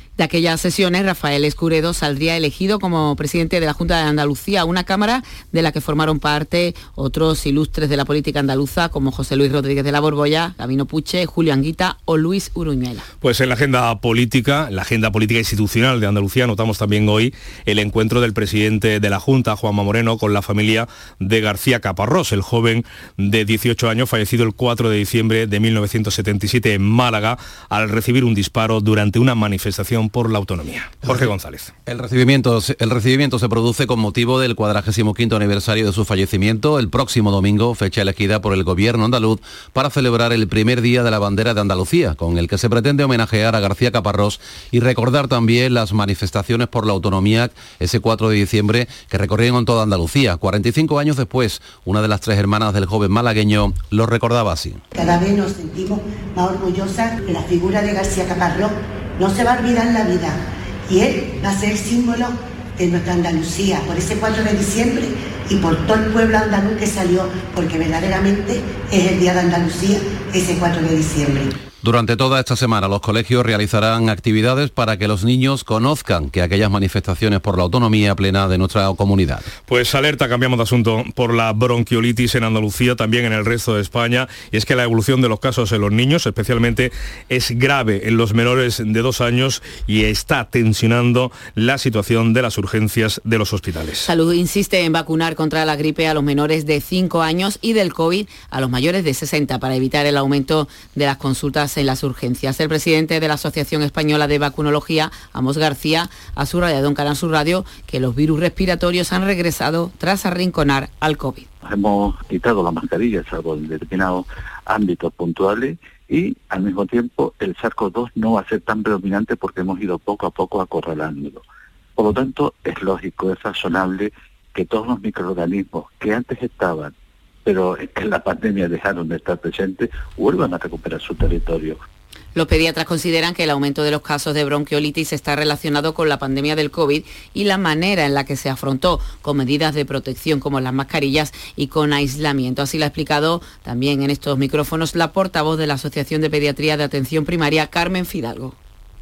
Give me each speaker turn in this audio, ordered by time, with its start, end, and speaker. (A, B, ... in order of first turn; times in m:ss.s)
0:00.2-0:13.1 A
0:13.2-0:31.7 B
0:31.9-0:54.8 C
0:55.0-1:11.5 D
1:11.8-1:19.5 C
1:19.7-1:34.1 B
1:34.0-1:51.5 A
1:51.6-2:01.4 E
2:02.0-2:06.9 E
2:07.5-2:11.8 E
2:12.4-2:28.6 A